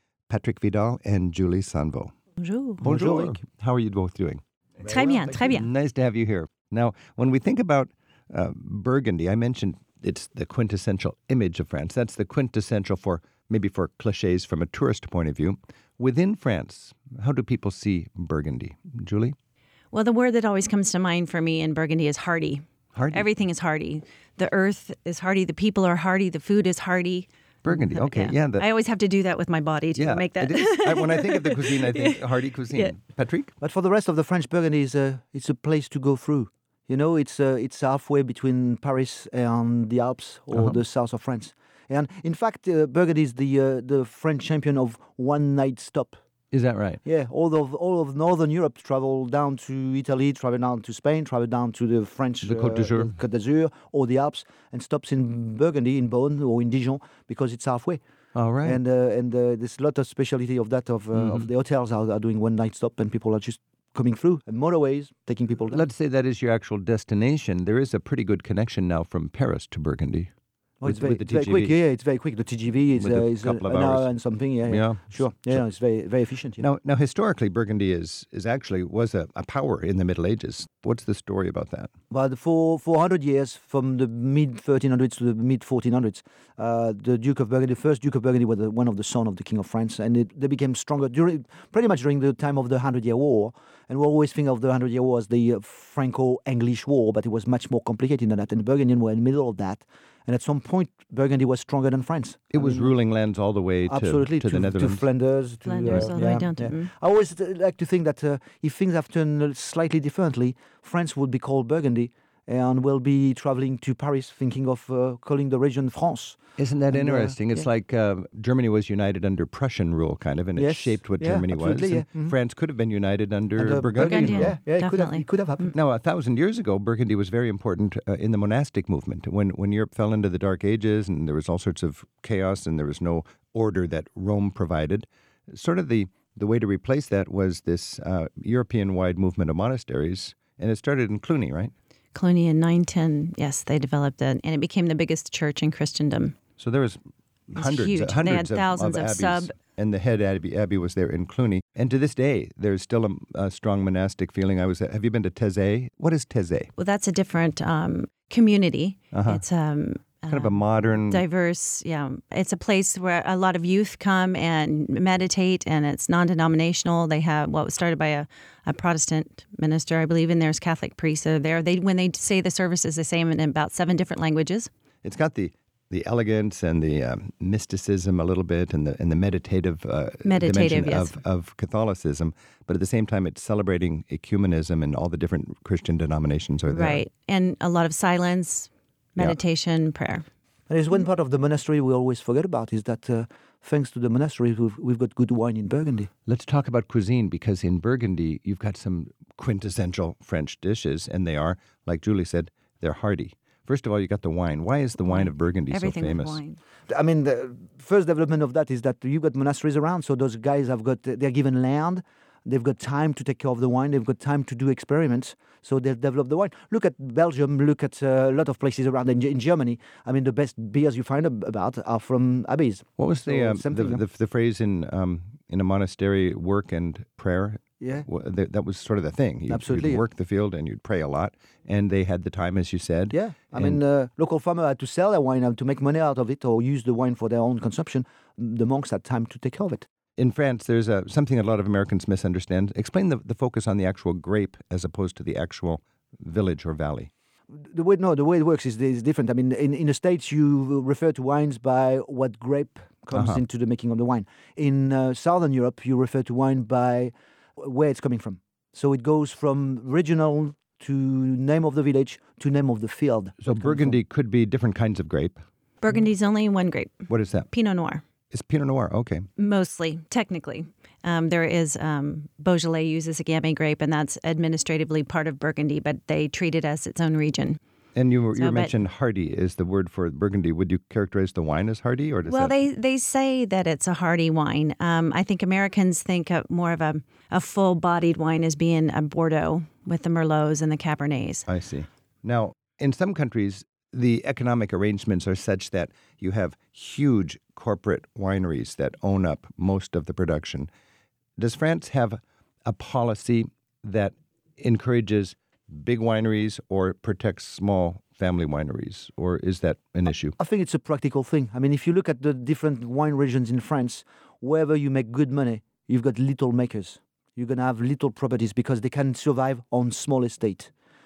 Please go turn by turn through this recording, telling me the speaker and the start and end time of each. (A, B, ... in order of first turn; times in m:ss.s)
0:00.3-0:02.1 A
0:02.4-0:02.8 B
0:02.8-0:03.4 C
0:02.8-0:04.4 A
0:04.8-0:05.4 C
0:04.9-0:05.7 B
0:05.4-0:19.3 A
0:19.9-0:32.9 B
0:22.9-0:23.3 A
0:27.6-0:28.7 A
0:30.0-0:33.5 A
0:33.6-0:46.2 C
0:40.5-0:40.8 A
0:46.5-0:47.0 A
0:47.0-0:58.0 C
0:52.4-0:53.2 A
0:58.3-0:58.8 A
0:58.6-1:05.8 C
1:01.1-1:01.5 A
1:05.7-1:10.3 A
1:10.8-1:16.6 C
1:10.8-1:11.8 A
1:12.9-1:14.1 A
1:14.6-1:15.6 A
1:16.6-1:21.9 A
1:22.1-1:42.9 C
1:42.5-1:45.0 A
1:43.8-1:56.4 C
1:45.6-1:46.9 B
1:45.9-1:46.1 A
1:56.6-2:04.5 A
1:56.9-1:57.4 C
2:00.6-2:02.4 C
2:03.6-2:05.7 C
2:04.0-2:05.2 B
2:05.7-2:21.7 A
2:22.1-2:26.3 B
2:26.6-2:36.7 A
2:27.6-2:29.5 B
2:36.8-2:54.7 B
2:39.1-2:39.4 A
2:40.3-2:41.2 A
2:55.0-3:07.0 A
3:00.2-3:01.1 B
3:06.7-3:10.2 B
3:10.7-3:16.1 C
3:16.2-3:26.4 A
3:25.1-3:26.6 B
3:26.9-3:44.0 C
3:43.0-3:53.8 A
3:47.8-3:48.1 C
3:49.5-3:50.0 C
3:53.1-3:59.8 C
4:00.2-4:07.1 A
4:07.5-4:24.0 C
4:13.1-4:13.4 A
4:23.4-4:25.4 A
4:25.8-4:28.0 B
4:27.1-4:27.5 A
4:28.3-4:29.3 A
4:29.4-4:37.6 B
4:37.9-4:42.5 A
4:38.3-4:38.7 B
4:42.3-4:51.5 B
4:51.5-5:00.7 A
5:01.4-5:10.4 A
5:10.4-5:20.7 C